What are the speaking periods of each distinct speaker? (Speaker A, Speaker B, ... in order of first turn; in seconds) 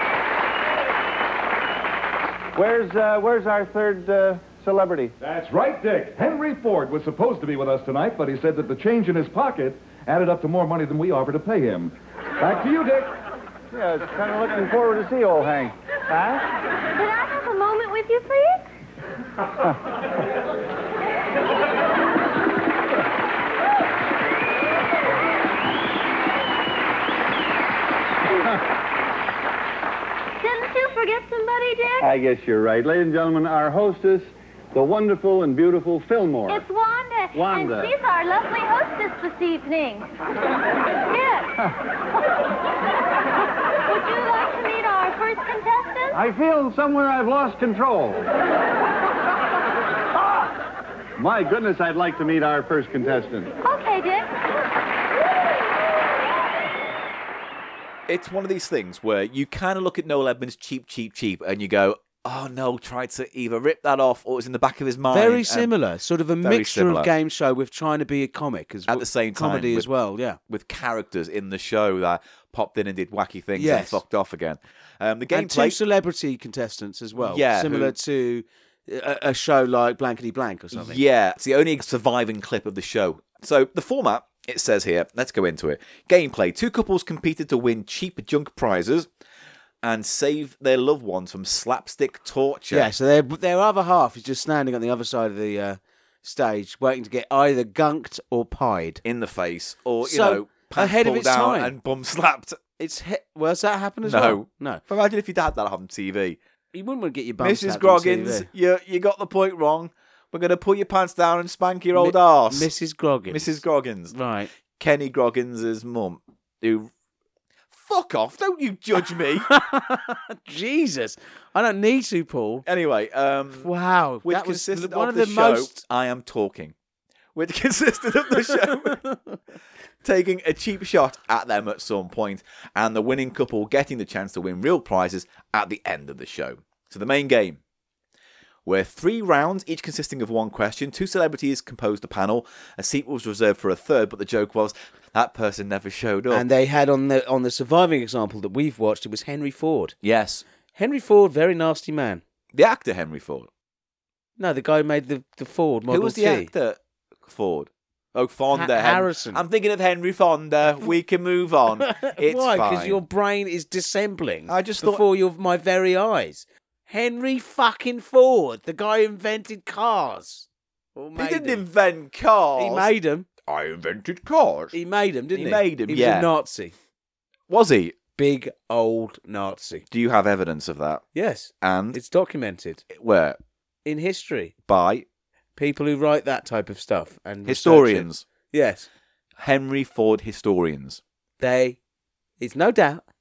Speaker A: 2.5-5.2, 13.7-16.4, 32.0-36.6, 37.3-37.9, 46.1-48.3, 51.2-53.5
Speaker B: 5.2-13.1
Speaker C: 17.0-18.7, 30.4-32.1, 36.5-40.1, 41.1-41.7, 43.9-46.2, 53.6-54.3
Speaker D: 58.1-65.7, 66.4-67.1, 68.9-69.9, 70.5-75.8, 77.2-78.0, 80.7-89.1, 89.8-92.9, 99.0-102.6, 104.0-106.4, 107.4-112.7, 113.3-114.2, 114.8-116.9, 117.7-119.5, 122.7-123.7, 124.2-126.8, 127.3-129.0, 130.0-137.6, 138.7-146.5, 150.0-150.4, 152.5-153.5, 155.9-163.0, 164.5-165.0, 171.2-172.9, 173.4-174.8, 175.3-176.3, 177.5-178.0, 179.9-181.0, 181.6-182.0, 182.9-183.4, 184.7-185.1, 187.4-188.2, 189.4-191.0
Speaker E: 65.1-70.4, 73.5-74.0, 75.3-81.0, 92.7-99.0, 100.0-101.7, 102.8-104.8, 106.7-108.5, 111.9-114.5, 119.4-122.7, 123.6-125.8, 128.5-129.4, 146.3-150.0, 150.8-152.2, 154.4-156.5, 158.5-159.4, 161.8-171.6, 172.6-173.3, 174.7-176.7, 178.2-179.8, 181.1-182.8, 183.8-184.5, 185.6-188.9, 191.4-191.8, 192.4-193.0